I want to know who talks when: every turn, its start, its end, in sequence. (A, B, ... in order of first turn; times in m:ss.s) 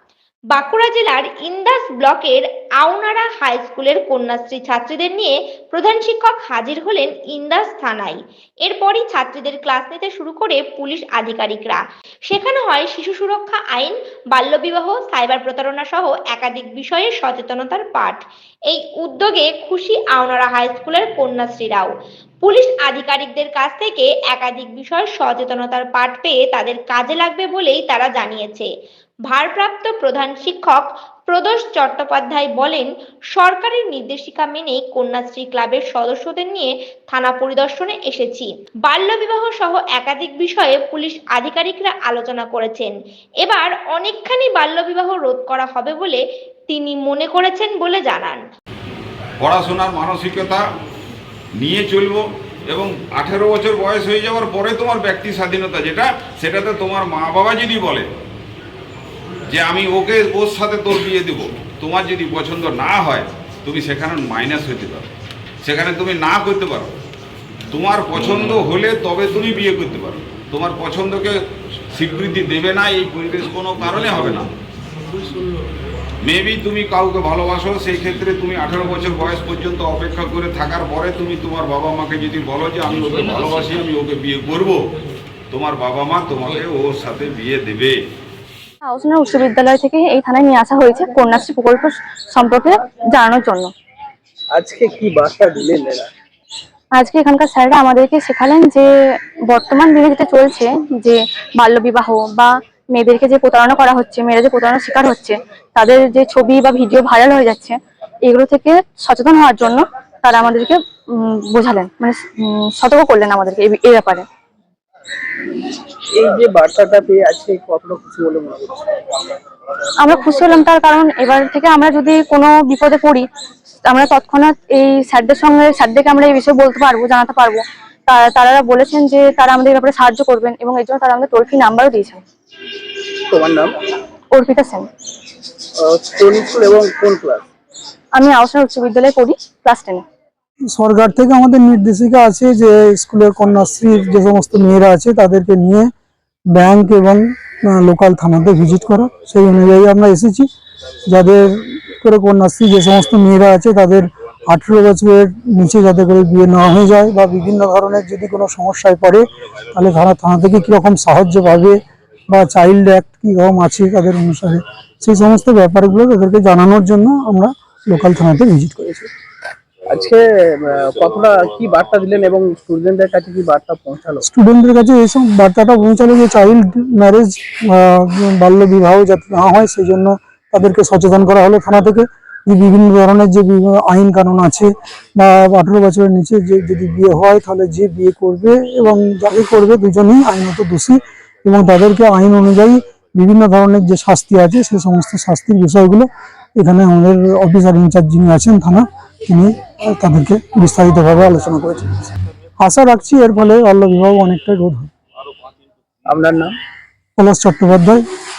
0:00.5-0:28.7 A
0:29.3-0:48.5 A
0:49.4-0:50.6 B
0:51.6-0:58.1 B
0:59.5-1:05.1 B
1:05.6-1:07.0 B
1:07.7-1:11.4 B
1:11.9-1:14.5 B
1:16.2-1:24.8 B
1:25.5-1:28.0 B
1:28.9-1:33.7 C
1:34.6-1:36.1 D
1:37.0-1:54.3 C
1:56.2-1:59.2 D
2:00.0-2:03.3 C
2:03.9-2:12.2 C
2:13.3-2:13.7 D
2:14.3-2:14.9 C
2:15.8-2:17.4 D
2:18.2-2:20.0 C
2:20.7-2:25.9 E
2:26.5-2:30.5 E
2:31.1-2:49.1 E
2:49.9-2:54.3 D
2:54.2-3:22.1 E
3:22.6-3:24.9 E
3:26.1-3:26.5 D
3:27.2-3:28.0 E